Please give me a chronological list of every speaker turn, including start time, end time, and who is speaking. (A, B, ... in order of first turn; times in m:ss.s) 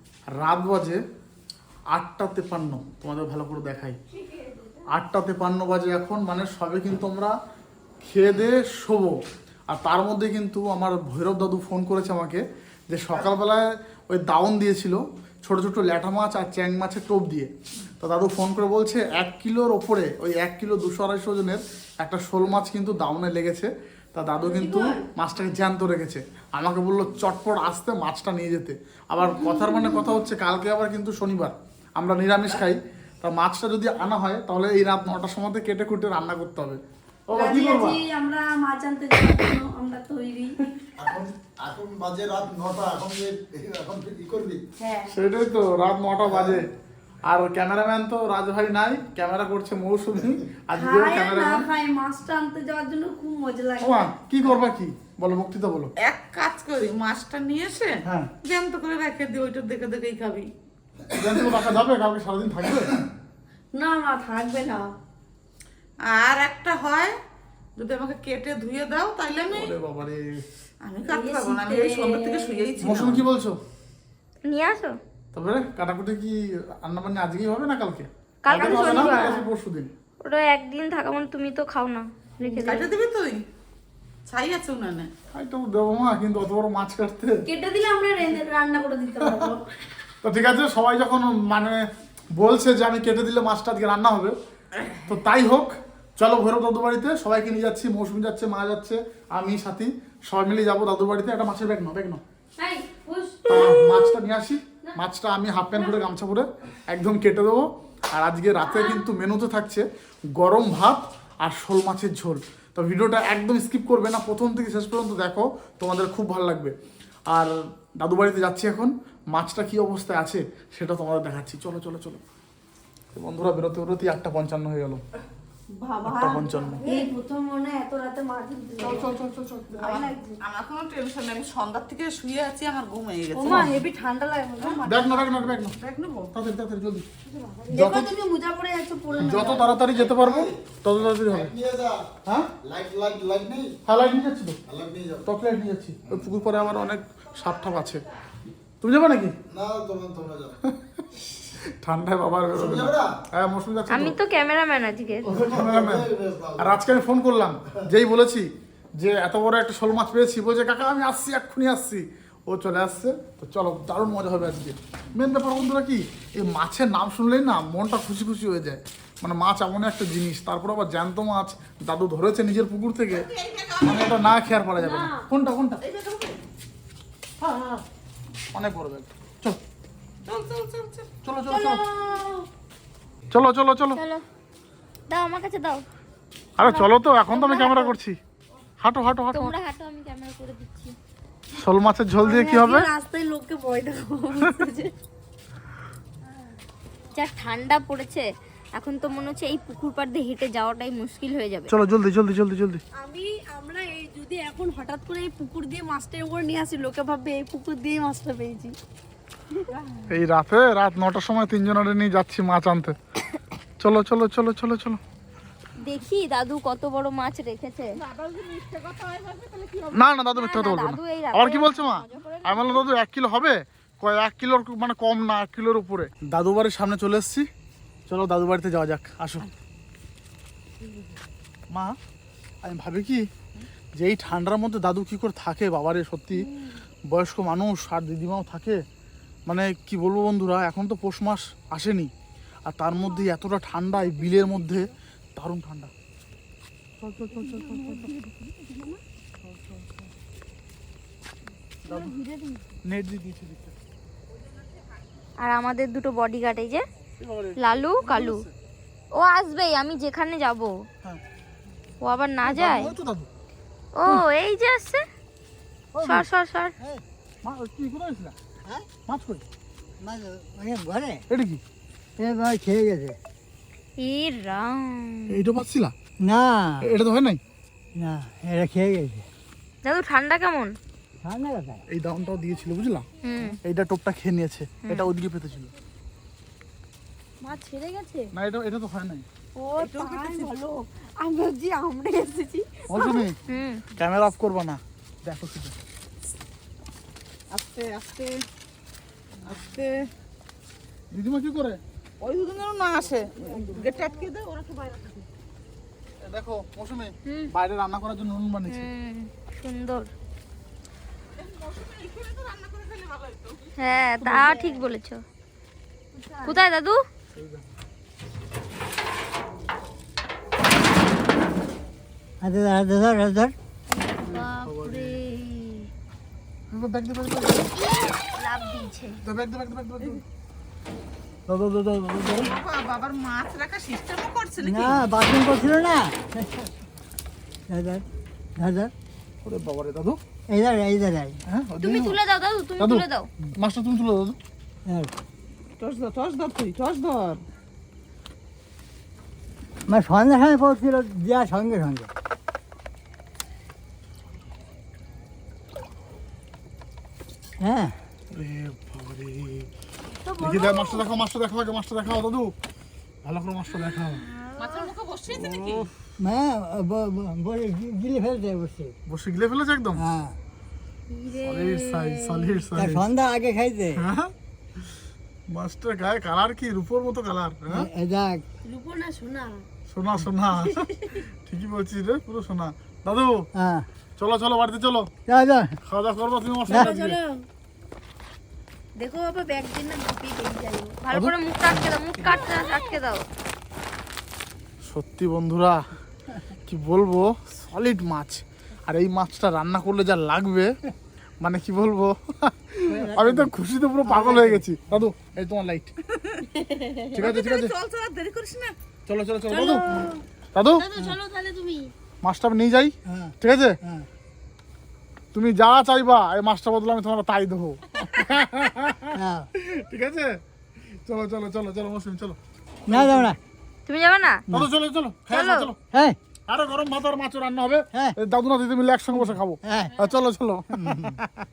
0:00.3-0:01.0 A
0:01.9-0:04.0 A
0:04.3-0:04.8 B
0:04.9-0:07.4 A
0:08.0-0:09.2 A
0:09.7-0:38.0 A
0:24.4-0:25.0 B
0:29.2-0:30.0 B
0:37.3-0:40.7 B
0:41.0-0:44.6 C
0:44.8-0:45.1 B
0:45.1-0:46.7 A
0:46.2-0:46.6 C
0:47.2-0:51.7 A
0:50.7-0:54.1 B
0:53.8-0:55.9 A
0:56.0-1:00.5 D
1:01.1-1:03.0 A
1:03.7-1:04.9 B
1:06.0-1:07.1 D
1:07.8-1:09.7 D
1:09.5-1:10.4 A
1:10.9-1:13.3 D
1:11.1-1:13.0 B
1:12.8-1:13.6 A
1:14.4-1:15.0 E
1:15.3-1:19.9 A
1:18.4-1:19.4 E
1:18.5-1:19.4 B
1:20.2-1:22.9 E
1:22.5-1:23.4 D
1:24.3-1:25.1 D
1:25.3-1:27.4 A
1:27.5-1:29.6 B
1:30.2-1:34.4 A
1:35.1-1:42.2 A
1:42.6-1:44.2 B
1:43.5-1:56.8 A
1:45.7-1:46.0 B
1:48.6-1:49.0 B
1:57.3-2:02.2 A
2:03.2-2:05.0 A
2:05.8-2:09.1 B
2:06.0-2:06.9 A
2:08.8-2:10.1 A
2:09.8-2:10.4 B
2:09.9-2:13.7 D
2:13.4-2:15.4 B
2:13.4-2:13.8 A
2:14.8-2:15.8 A
2:15.8-2:16.3 D
2:16.3-2:17.1 A
2:17.3-2:19.8 B
2:17.7-2:18.2 A
2:19.2-2:21.5 A
2:19.9-2:22.1 C
2:22.6-2:23.8 C
2:23.9-2:24.6 A
2:24.7-2:25.3 C
2:25.3-2:28.0 A
2:28.8-2:29.4 A
2:29.5-2:30.6 C
2:31.8-2:34.2 A
2:32.5-2:33.1 C
2:33.9-2:35.3 E
2:35.3-2:36.8 C
2:35.3-2:36.1 A
2:36.6-2:53.3 A
2:53.1-2:54.4 D
2:53.8-2:55.8 A
2:54.8-2:55.3 B
2:55.8-2:56.4 D
2:57.4-2:57.8 A
2:58.5-2:59.6 A
3:00.3-3:01.1 D
3:01.2-3:01.8 A
3:01.5-3:02.5 B
3:03.3-3:04.0 A
3:05.1-3:05.8 E
3:06.6-3:08.2 A
3:06.6-3:08.0 E
3:08.8-3:09.5 A
3:09.3-3:11.0 E
3:11.6-3:12.9 A
3:12.2-3:14.9 B
3:17.2-3:21.7 E
3:21.7-3:22.8 A
3:23.0-3:28.8 B
3:30.1-3:33.0 A
3:33.8-3:35.0 A
3:35.8-3:38.0 E
3:38.0-3:40.1 D
3:39.9-3:47.5 A
3:40.4-3:42.8 E
3:48.1-3:49.5 A
3:52.6-3:53.3 A
3:54.0-3:56.5 A
3:56.5-3:56.8 B
3:57.1-3:58.8 A
3:59.5-4:02.1 A
4:02.7-4:05.9 A
4:04.3-4:04.7 B
4:07.0-4:08.1 A
4:07.3-4:09.0 B
4:09.4-4:10.0 A
4:11.8-4:12.1 A
4:11.9-4:12.6 B
4:12.9-4:13.8 A
4:15.4-4:16.8 E
4:17.2-4:18.5 A
4:17.6-4:18.4 E
4:19.2-4:20.7 E
4:22.0-4:22.9 E
4:22.5-4:23.3 A
4:24.0-4:25.0 E
4:25.9-4:26.3 F
4:26.0-4:26.7 E
4:27.4-4:28.4 A
4:29.1-4:29.5 A
4:30.0-4:31.2 F
4:31.3-4:31.6 A
4:32.2-4:33.2 F
4:34.0-4:35.3 E
4:35.3-4:35.9 A
4:36.2-4:36.9 F
4:36.8-4:37.4 A
4:38.0-4:39.3 F
4:39.9-4:40.7 E
4:41.2-4:41.8 F
4:41.9-4:43.1 A
4:43.2-4:43.6 E
4:43.6-4:45.7 A
4:47.4-4:48.3 B
4:48.3-4:49.2 A
4:49.6-4:53.2 B
4:49.8-4:50.5 D
4:52.9-4:53.4 A
4:53.5-4:53.8 E
4:54.0-4:55.8 A
4:57.5-4:58.4 D
4:59.4-5:00.0 D
5:01.1-5:01.8 A
5:02.2-5:05.2 D
5:06.2-5:08.9 A
5:07.3-5:07.5 E
5:08.7-5:10.1 E
5:11.4-5:14.0 D
5:13.8-5:15.2 E
5:16.2-5:16.6 B
5:16.4-5:17.0 E
5:17.3-5:17.6 A
5:22.4-5:23.5 F
5:24.0-5:25.9 E
5:24.2-5:25.2 A
5:26.7-5:27.7 A
5:28.4-5:29.2 E
5:29.2-5:30.2 A
5:31.5-5:32.5 A
5:32.3-5:35.0 D
5:34.6-5:36.7 F
5:37.7-5:38.0 F
5:38.6-5:38.9 F
5:39.4-5:40.2 A
5:40.5-5:41.4 F
5:41.5-5:42.2 A
5:41.8-5:43.3 E
5:42.8-5:43.0 A
5:43.6-5:44.4 A
5:44.9-5:45.1 F
5:45.8-5:47.4 D
5:49.9-5:52.1 F
5:57.6-5:58.0 F
5:58.3-5:59.7 A
6:00.2-6:01.1 B
6:00.4-6:02.6 A
6:03.2-6:04.2 A
6:04.5-6:04.8 B
6:04.6-6:05.9 D
6:05.3-6:05.9 A
6:06.2-6:08.9 F
6:09.1-6:10.0 A
6:10.0-6:10.4 F
6:11.2-6:12.1 B
6:11.4-6:13.1 A
6:12.7-6:14.0 F
6:14.0-6:14.3 A
6:15.5-6:17.9 A
6:17.7-6:18.4 F
6:18.6-6:19.6 B
6:19.9-6:23.5 A
6:20.6-6:21.2 B
6:23.6-6:23.8 F
6:24.2-6:25.1 A
6:25.3-6:25.8 F
6:25.9-6:27.2 A
6:26.7-6:27.4 B
6:26.7-6:27.0 F
6:29.0-6:31.0 B
6:31.0-6:33.2 E
6:31.1-6:32.4 A
6:34.8-6:35.9 A
6:36.7-6:40.8 A
6:41.4-6:46.0 A
6:42.9-6:43.5 F
6:44.0-6:44.6 F
6:46.1-6:46.5 D
6:46.6-6:47.1 B
6:47.0-6:48.7 D
6:47.1-6:47.7 A
6:49.1-6:50.9 A
6:49.5-6:50.2 B
6:50.8-6:51.9 B
6:52.2-6:53.8 A
6:53.1-6:54.1 F
6:55.3-7:00.4 A
6:59.1-6:59.5 F
7:01.1-7:02.4 A
7:02.9-7:03.4 F
7:02.9-7:03.3 A
7:03.9-7:04.4 E
7:04.5-7:05.8 A
7:05.3-7:05.7 E
7:05.9-7:06.2 F
7:06.5-7:11.3 A
7:09.1-7:09.9 F
7:10.7-7:11.2 F